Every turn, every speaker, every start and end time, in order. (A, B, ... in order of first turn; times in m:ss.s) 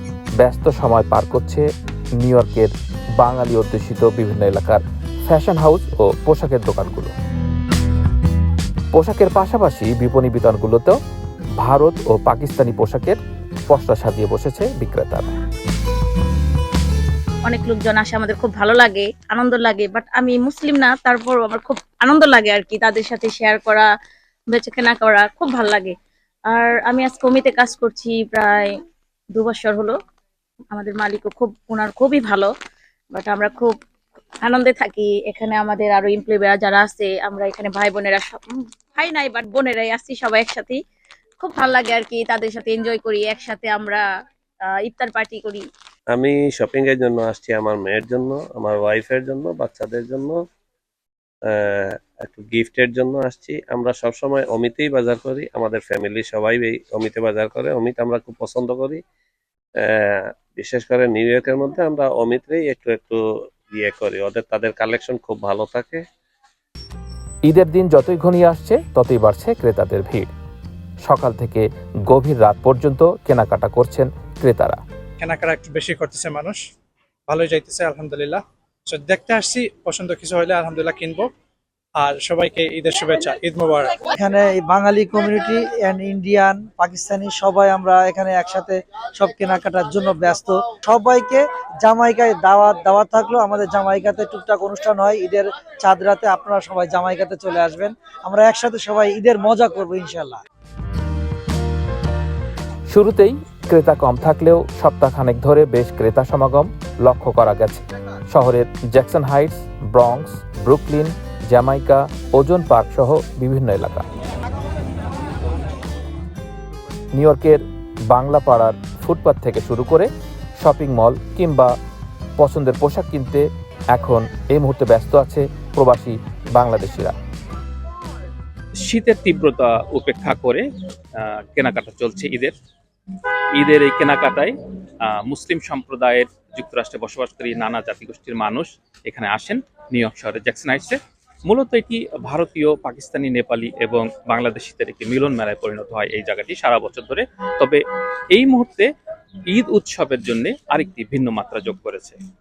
0:00.4-0:01.7 A
0:02.2-0:07.1 A
0:08.9-0:11.0 A
0:11.6-0:15.3 A
0:17.4-0:23.9 B
0:24.5-0:25.9 B
0:26.5-0:28.7 B
0:29.4-0:30.0 B
0:30.7-0:32.5 B
0:33.2-0:33.7 B
0:34.4-0:40.8 B
0:41.4-0:44.0 B
0:44.8-0:45.6 B
0:46.1-0:50.4 C
0:51.5-0:59.0 C
1:00.5-1:03.2 C
1:03.7-1:06.0 C
1:07.4-1:10.3 A
1:11.0-1:14.8 A
1:15.2-1:16.6 D
1:17.3-1:21.3 D
1:22.0-1:24.0 D
1:24.1-1:40.4 E
1:42.9-1:54.0 A
1:57.1-2:01.7 A
2:02.4-2:07.2 A
2:08.8-2:10.6 F
2:11.2-2:12.5 F
2:13.5-2:27.8 F
2:28.3-2:28.9 F
2:29.5-2:32.2 F